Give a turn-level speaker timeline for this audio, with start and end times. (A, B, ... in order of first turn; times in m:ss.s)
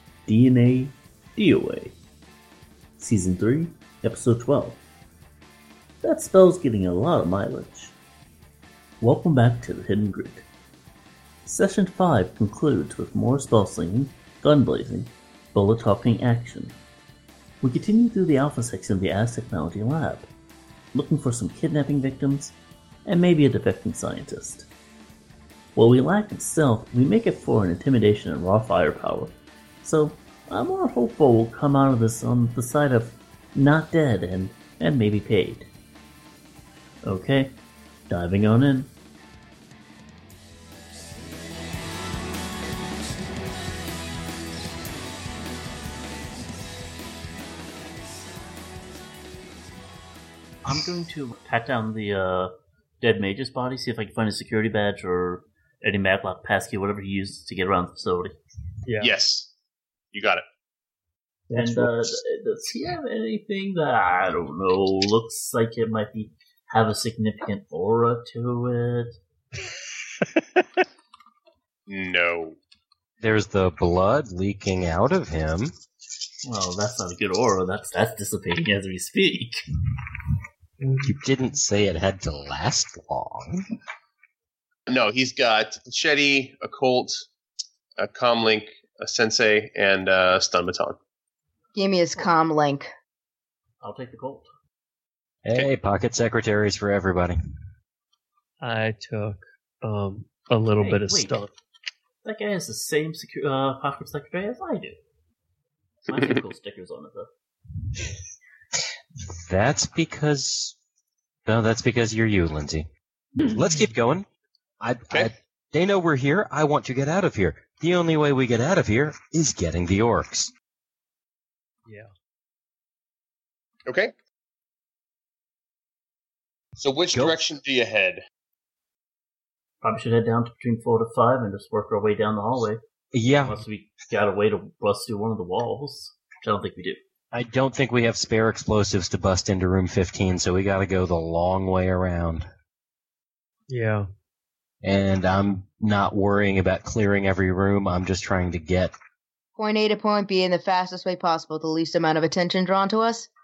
0:00.3-0:02.0 A
0:03.0-0:04.8 A
0:06.0-0:07.9 A
0:09.0-0:10.5 A
0:11.5-0:16.8 A
0:17.6-0:20.3 A
0:20.9-0:24.7 A
0:25.8-0:35.7 A
0:37.0-0:37.6 A
0:38.1-0:38.9 A
0:50.6-0:58.4 A
0:58.9-0:59.1 B
0:59.0-0:59.5 C
1:00.1-1:00.4 C
1:01.5-1:02.0 B
1:01.5-1:09.2 A
1:10.4-1:10.7 B
1:11.9-1:12.6 C
1:13.2-1:15.7 D
1:16.4-1:19.6 A
1:21.0-1:23.6 D
1:24.9-1:27.3 C
1:28.0-1:31.0 C
1:31.8-1:32.9 E
1:33.8-1:34.5 A
1:35.4-1:37.4 D
1:38.6-1:41.5 B
1:40.8-1:41.5 A
1:42.2-1:45.0 A
1:46.1-1:47.3 A
1:49.4-1:50.8 D
1:51.5-1:52.9 D
1:53.4-1:54.3 D
1:54.8-2:00.5 D
2:01.9-2:02.1 B
2:03.9-2:04.1 C
2:06.8-2:08.2 C
2:07.1-2:07.4 D
2:09.8-2:12.8 A
2:13.1-2:13.6 D
2:13.3-2:17.0 A
2:17.3-2:22.5 D
2:23.7-2:24.1 B
2:24.8-2:28.9 D
2:29.6-2:33.3 E